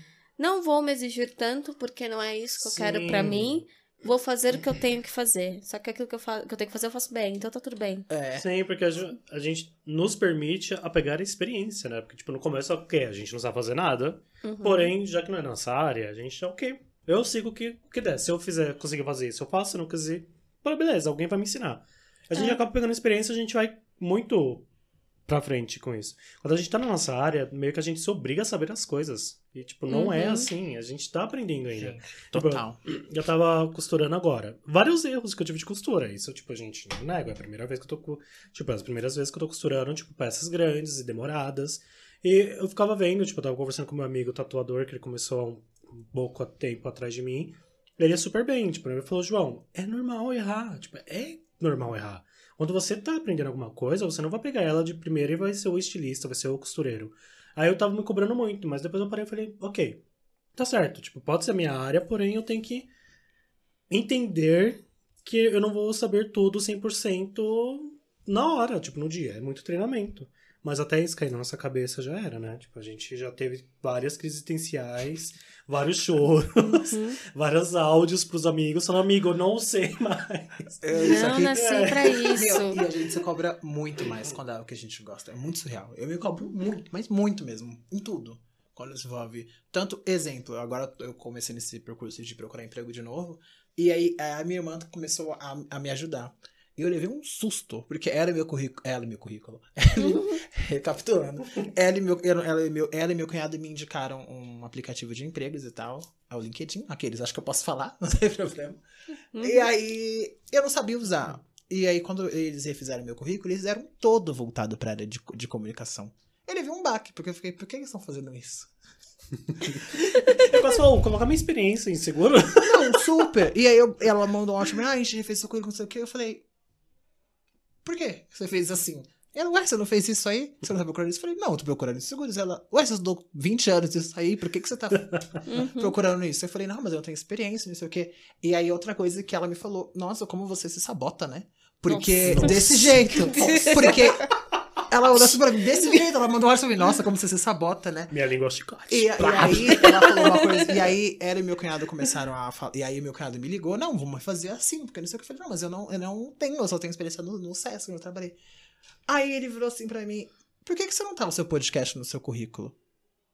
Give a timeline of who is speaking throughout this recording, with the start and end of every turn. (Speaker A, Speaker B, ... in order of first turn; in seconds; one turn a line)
Speaker A: 0.4-8.1
Speaker B: 2.6-3.6
Speaker C: 8.1-8.4
Speaker B: 8.3-24.6
Speaker A: 14.4-14.9
Speaker A: 22.3-22.6
Speaker B: 25.3-60.0
Speaker A: 29.9-30.5
Speaker C: 31.8-32.8
Speaker B: 60.5-62.9
Speaker B: 63.9-80.6
Speaker A: 76.6-77.2
Speaker C: 80.8-81.6
Speaker A: 80.9-82.8
Speaker B: 81.5-82.4
Speaker C: 82.3-108.8
Speaker A: 100.0-100.4
Speaker A: 109.3-109.7
Speaker C: 109.4-118.7
Speaker B: 119.7-123.0
Speaker C: 122.6-126.5
Speaker C: 127.8-148.1
Speaker A: 135.4-135.9
Speaker A: 141.9-144.2
Speaker B: 142.3-142.6
Speaker B: 148.1-149.9
Speaker C: 148.9-158.3
Speaker A: 149.2-150.8
Speaker C: 159.1-162.7